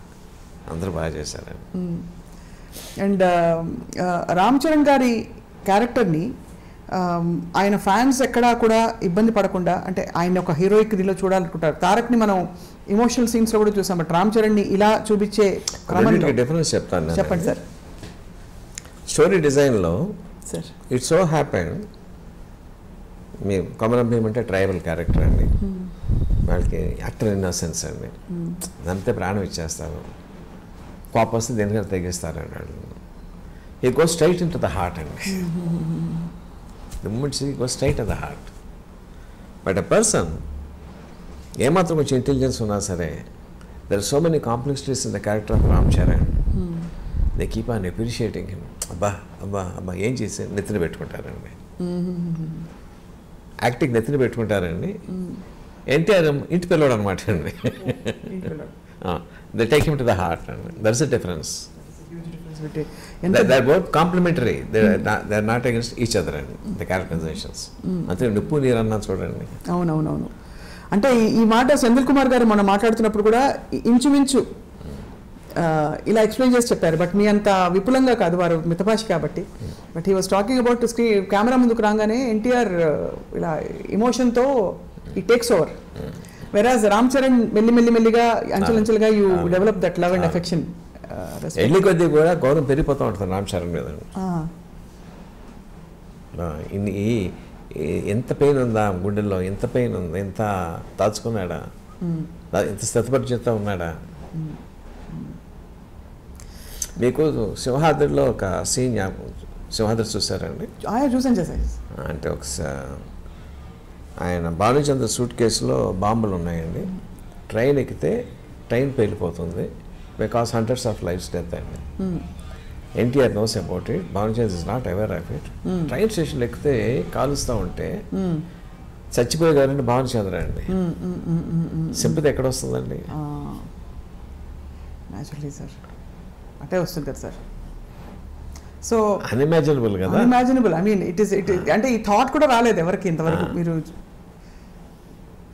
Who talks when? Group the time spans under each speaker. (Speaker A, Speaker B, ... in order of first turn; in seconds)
Speaker A: 0.7-1.7, 15.9-17.6, 19.1-20.1, 20.9-21.8, 23.4-25.5, 26.4-28.2, 28.7-30.1, 31.1-33.0, 33.8-35.5, 37.0-38.5, 39.6-40.4, 41.6-43.2, 43.9-46.4, 47.4-51.6, 53.6-55.0, 55.9-58.3, 59.0-61.7, 63.3-69.6, 88.6-90.4, 91.5-94.1, 96.3-101.6, 102.5-104.0, 107.0-110.7, 111.9-113.1, 114.2-116.9, 117.5-121.8, 123.0-128.0, 129.2-130.7, 131.9-133.1, 139.2-140.3, 143.3-143.6
Speaker B: 1.8-2.1, 3.0-6.3, 7.0-16.4, 17.1-17.6, 20.5-20.8, 25.6-25.9, 28.3-28.6, 35.3-36.3, 46.5-46.9, 51.8-52.7, 55.1-55.4, 58.3-58.7, 61.9-63.6, 67.8-68.1, 69.7-70.3, 70.9-74.5, 75.6-85.8, 86.5-91.9, 94.2-94.5, 102.0-102.3, 105.1-105.4, 110.8-111.8, 122.0-122.3, 125.7-125.9, 128.1-128.4, 130.7-132.2, 133.1-133.7, 135.1-135.8, 136.6-137.4, 140.1-143.9